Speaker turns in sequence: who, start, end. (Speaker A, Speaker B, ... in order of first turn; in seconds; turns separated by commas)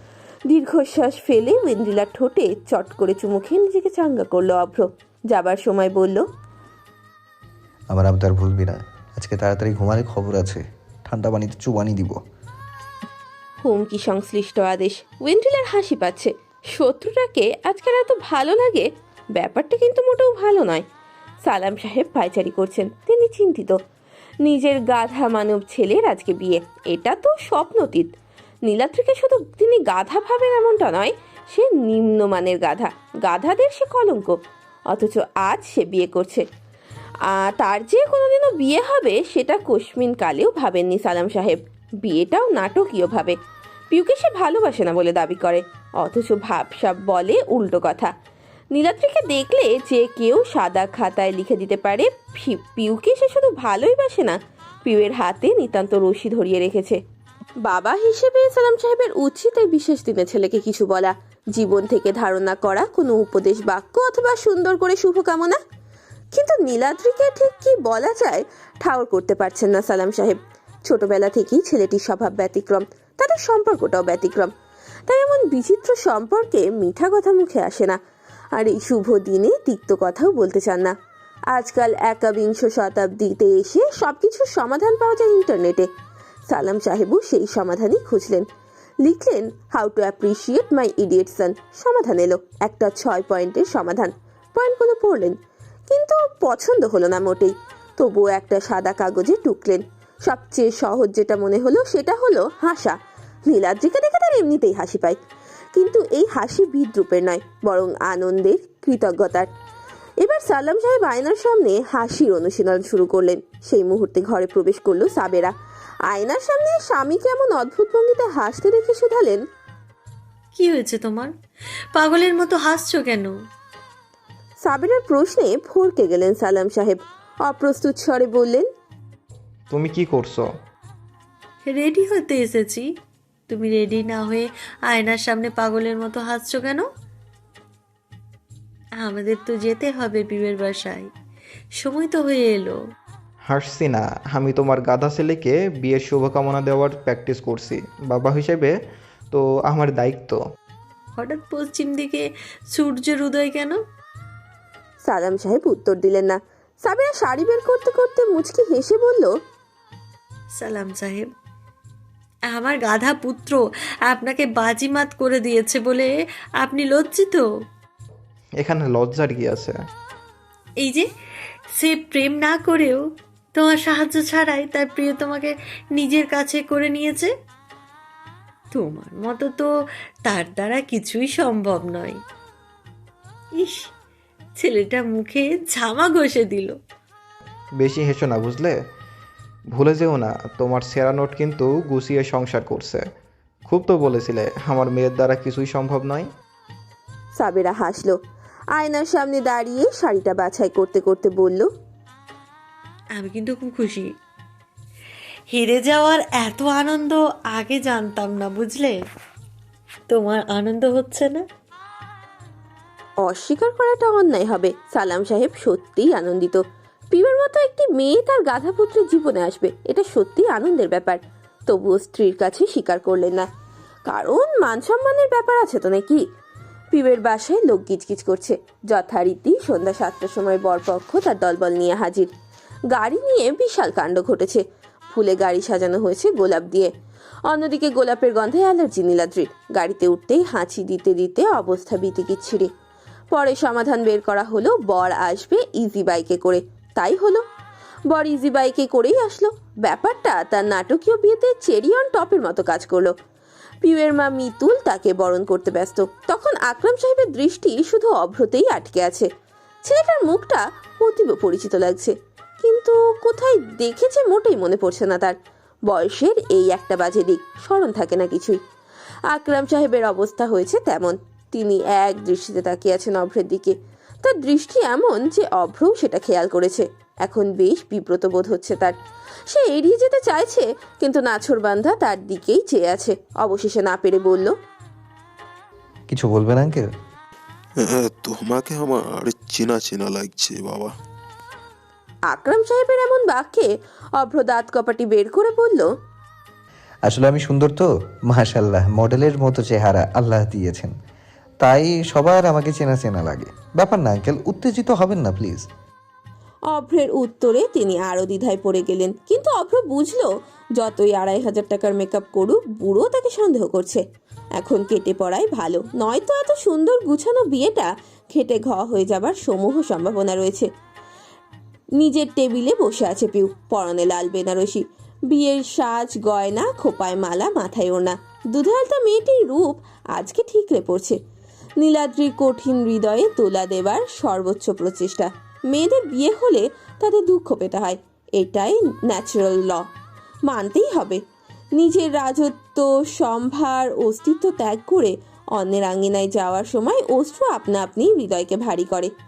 Speaker A: 0.5-6.2, Speaker B: 7.9-12.2, Speaker A: 13.6-20.9, Speaker A: 21.4-23.8, Speaker A: 24.4-28.1, Speaker A: 28.7-34.4, Speaker A: 34.9-36.4, Speaker A: 37.3-43.4, Speaker A: 43.9-48.1, Speaker A: 48.7-57.0, Speaker A: 57.7-65.6, Speaker A: 66.3-74.5, Speaker A: 75.1-78.0, Speaker A: 78.6-80.9, Speaker A: 81.5-85.9, Speaker A: 86.5-88.4, Speaker A: 89.0-95.4, Speaker A: 95.9-105.2, Speaker A: 105.8-109.5, Speaker A: 110.2-115.5, Speaker A: 116.1-119.4, Speaker C: 120.5-121.3, Speaker C: 121.9-123.3, Speaker A: 124.6-128.7, Speaker D: 129.7-130.5, Speaker C: 131.7-132.9, Speaker C: 133.5-136.9, Speaker C: 139.0-141.1, Speaker C: 141.8-142.8, Speaker D: 143.5-148.7, Speaker D: 149.3-150.4, Speaker C: 151.2-153.8, Speaker A: 155.0-159.3, Speaker C: 160.6-161.3, Speaker C: 162.5-167.5, Speaker D: 168.6-169.8, Speaker C: 170.8-171.1, Speaker C: 171.8-173.0, Speaker C: 173.6-177.3, Speaker C: 178.7-179.7, Speaker C: 180.2-182.2, Speaker C: 183.6-183.9, Speaker C: 184.6-186.8, Speaker D: 187.8-188.8, Speaker D: 189.8-193.0, Speaker D: 193.7-196.3, Speaker A: 197.4-198.2, Speaker A: 198.8-201.7, Speaker C: 203.2-204.1, Speaker C: 205.5-209.0, Speaker C: 210.1-211.4, Speaker A: 213.2-223.5, Speaker A: 224.1-226.2, Speaker A: 226.9-232.3, Speaker A: 232.9-236.9, Speaker A: 237.5-242.7, Speaker A: 243.3-247.4, Speaker A: 248.1-253.1, Speaker A: 253.8-259.3, Speaker A: 259.8-265.3, Speaker A: 265.9-268.6, Speaker A: 269.3-278.9, Speaker A: 279.5-284.5, Speaker B: 286.1-286.9, Speaker E: 287.8-290.9, Speaker A: 292.3-295.9, Speaker B: 297.0-300.9, Speaker B: 301.6-305.6, Speaker A: 306.7-314.0, Speaker A: 314.6-320.7, Speaker A: 322.0-331.2, Speaker A: 331.8-339.8, Speaker A: 340.5-341.2, Speaker A: 341.8-349.1